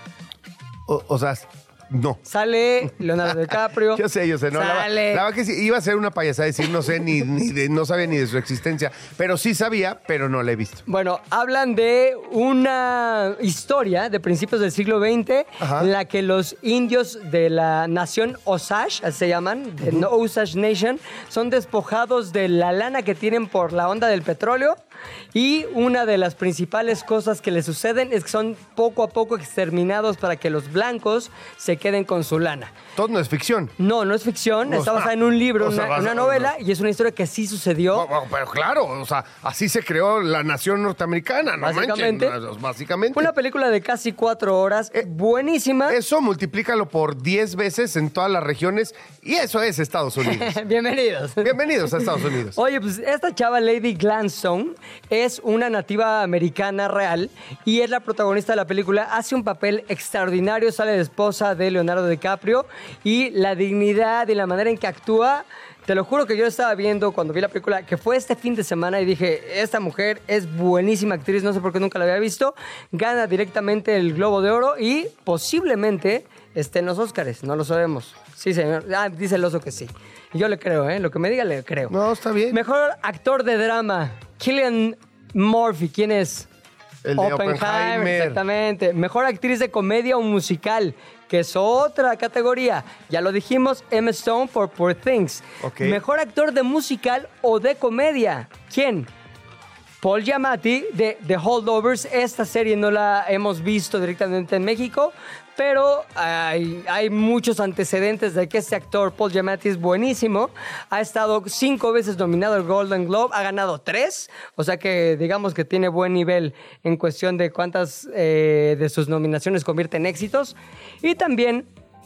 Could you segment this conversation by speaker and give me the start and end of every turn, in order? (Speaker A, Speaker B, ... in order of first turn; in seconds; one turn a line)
Speaker A: 0.9-2.2
Speaker B: 2.3-5.2
Speaker A: 2.8-10.8
Speaker B: 10.9-24.8
Speaker A: 15.6-15.9
Speaker B: 25.3-32.7
Speaker A: 33.0-33.7
Speaker B: 33.8-38.1
Speaker A: 34.6-36.5
Speaker A: 37.9-43.3
Speaker B: 41.6-42.3
Speaker B: 43.1-46.0
Speaker A: 45.9-50.5
Speaker B: 50.2-51.5
Speaker A: 51.4-52.6
Speaker B: 52.1-81.9
Speaker A: 81.9-82.6
Speaker B: 82.5-86.5
Speaker A: 87.0-88.4
Speaker B: 87.2-99.1
Speaker A: 95.6-96.0
Speaker B: 100.0-121.7